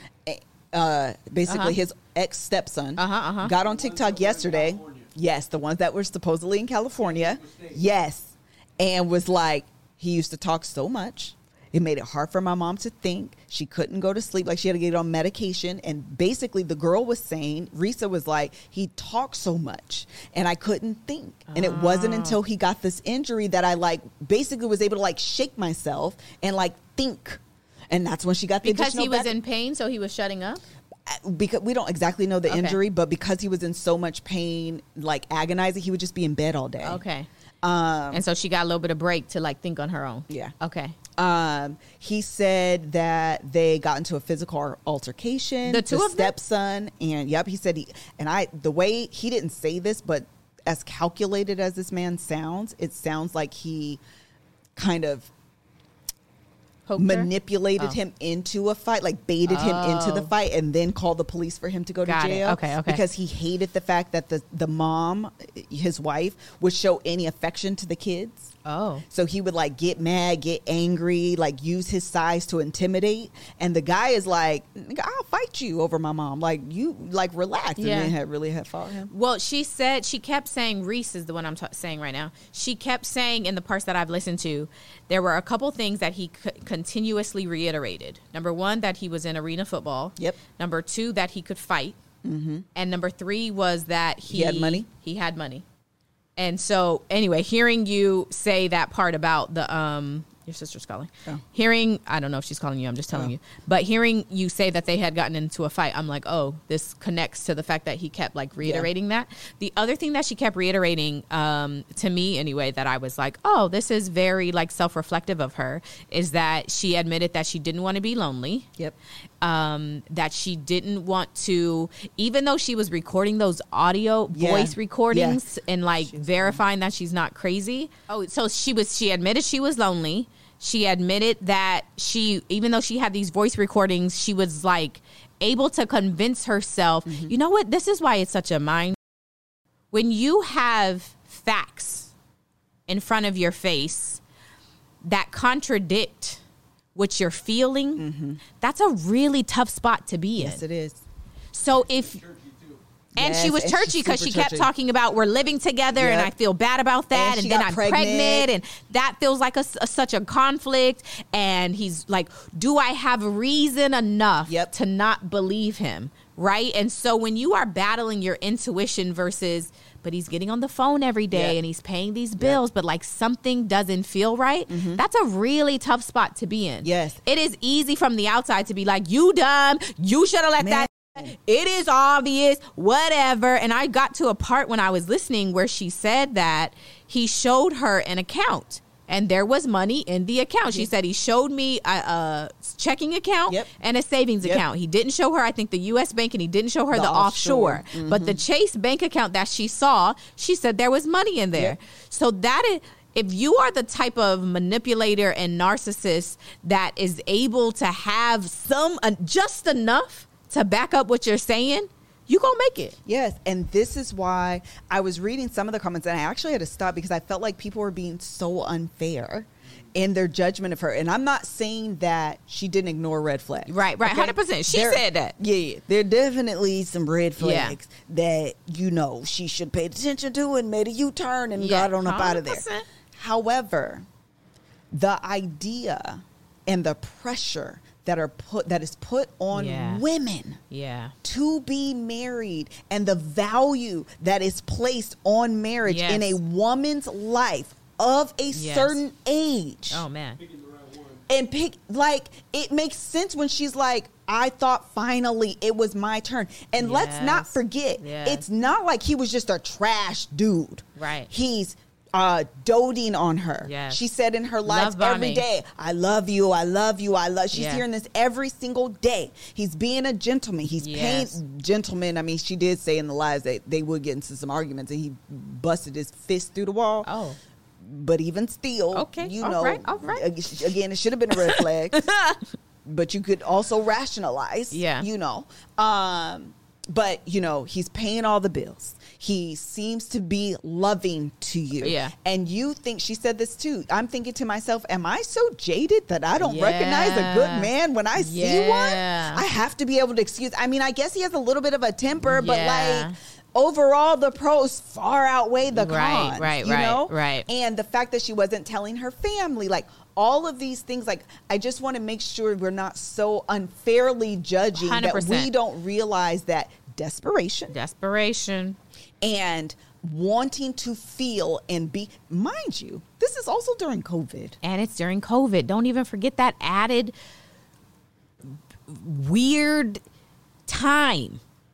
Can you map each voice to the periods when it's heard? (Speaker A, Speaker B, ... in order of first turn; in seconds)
Speaker A: 0.2-29.3, 31.1-37.0, 37.6-38.2, 41.2-54.0, 54.8-55.3, 57.0-68.5, 69.1-79.1, 92.2-92.7, 94.3-94.9, 108.6-108.9, 124.3-125.4, 126.0-126.6, 137.1-137.3, 147.9-148.4, 150.4-151.0, 153.2-154.7, 155.9-156.3, 157.1-158.5, 171.3-171.6, 174.7-175.0, 176.8-177.2, 180.6-181.3, 196.9-198.4, 213.1-234.1, 234.9-240.6, 241.2-250.0, 251.3-277.1, 277.8-282.0, 282.8-317.7, 319.2-324.6
Speaker B: 1.5-1.8, 3.0-3.5, 21.5-22.4, 28.6-30.6, 32.5-32.8, 36.8-37.3, 38.1-41.0, 45.6-46.4, 56.9-58.0, 59.5-60.3, 62.0-63.0, 68.6-69.0, 77.8-78.1, 79.1-92.0, 92.7-95.6, 96.4-118.7, 119.4-138.9, 139.9-142.1, 142.9-144.2, 145.0-146.4, 146.9-148.0, 148.6-150.6, 151.5-152.2, 153.2-213.0, 223.7-225.3, 227.4-227.8, 231.6-232.8, 239.5-240.0, 240.7-241.1, 245.8-246.4, 248.5-249.0, 249.9-250.4, 256.8-258.4, 261.0-261.3, 263.6-264.0, 264.6-265.4, 267.5-267.8, 270.8-271.4, 277.0-277.4, 278.9-280.2, 281.3-282.4, 284.7-285.1, 291.8-292.1, 296.4-299.4, 302.3-303.1, 305.7-307.5, 314.7-315.5, 317.7-318.8, 324.6-327.1, 328.9-330.0, 330.7-331.4
Speaker C: 3.5-5.1, 7.0-7.8, 151.8-152.8, 250.4-251.3